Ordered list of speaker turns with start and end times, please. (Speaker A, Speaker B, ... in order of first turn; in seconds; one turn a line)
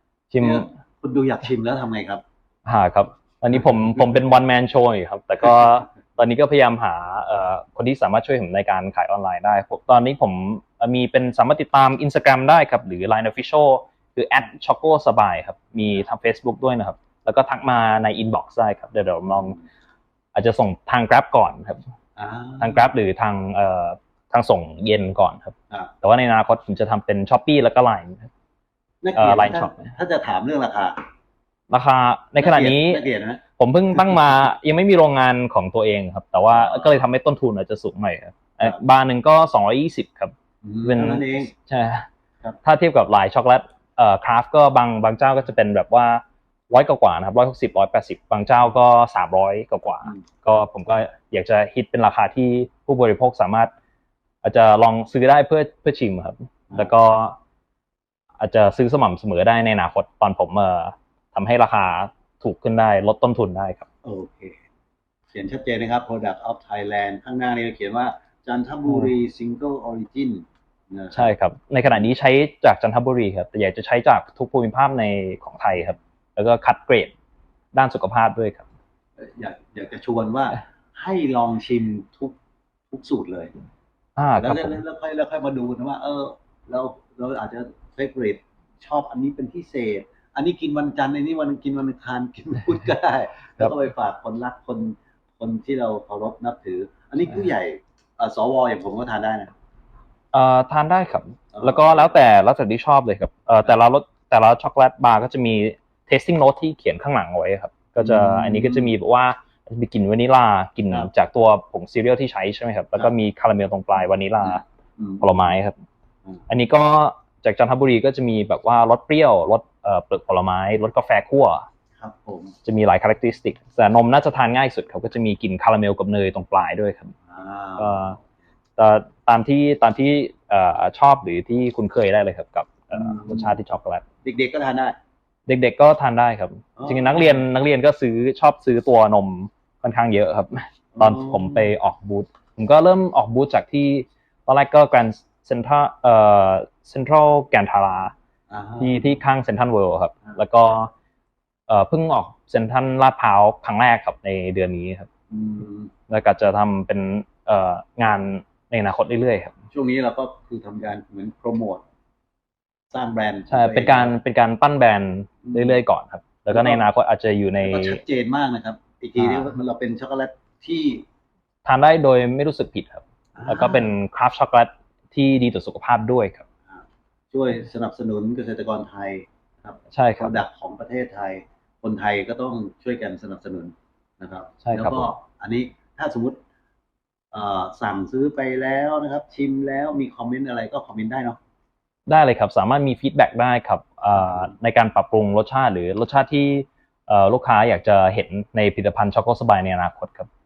Speaker A: 0.3-0.7
Speaker B: 0.4-2.2
Speaker A: 2.7-19.6
Speaker B: 19.3-19.6
Speaker A: 20.3-21.8
Speaker B: 22.2-22.9
Speaker A: 22.6-28.3
Speaker B: 29.0-31.0
Speaker A: 29.1-29.9
Speaker A: 31.7-33.0
Speaker B: 32.4-33.4
Speaker A: 33.6-42.1
Speaker B: 33.9-34.3
Speaker B: 36.5-36.9
Speaker B: 40.6-41.5
Speaker A: 42.6-53.7
Speaker A: 54.4-57.4
Speaker A: 58.4-63.9
Speaker B: 64.0-64.6
Speaker B: 65.3-71.3
Speaker A: 68.9-69.1
Speaker A: 71.1-77.1
Speaker A: 77.7-78.7
Speaker B: 79.2-82.3
Speaker B: 82.9-83.5
Speaker A: 84.2-84.8
Speaker B: 84.4-99.5
Speaker A: 100.3-114.6
Speaker B: 101.5-102.1
Speaker B: 108.0-108.9
Speaker B: 114.4-115.4
Speaker A: 115.2-115.8
Speaker A: 116.5-121.7
Speaker B: 122.0-122.5
Speaker A: 122.7-127.1
Speaker B: 127.3-128.2
Speaker A: 127.8-128.2
Speaker A: 128.8-134.0
Speaker B: 132.9-133.6
Speaker B: 134.2-135.0
Speaker A: 135.5-148.1
Speaker B: 136.8-137.5
Speaker B: 140.9-141.7
Speaker B: 148.5-149.2
Speaker A: 148.8-150.9
Speaker A: 151.7-155.1
Speaker B: 155.3-155.9
Speaker A: 156.1-159.5
Speaker B: 159.7-161.8
Speaker B: 162.9-164.2
Speaker A: 163.5-168.0
Speaker B: 165.4-165.8
Speaker B: 166.5-166.8
Speaker B: 167.6-171.0
Speaker A: 169.2-169.5
Speaker A: 171.7-176.4
Speaker B: 173.3-173.9
Speaker B: 176.7-186.4
Speaker A: 179.9-180.4
Speaker A: 184.6-185.1
Speaker B: 187.3-191.4
Speaker A: 192.1-200.3
Speaker B: 194.2-194.5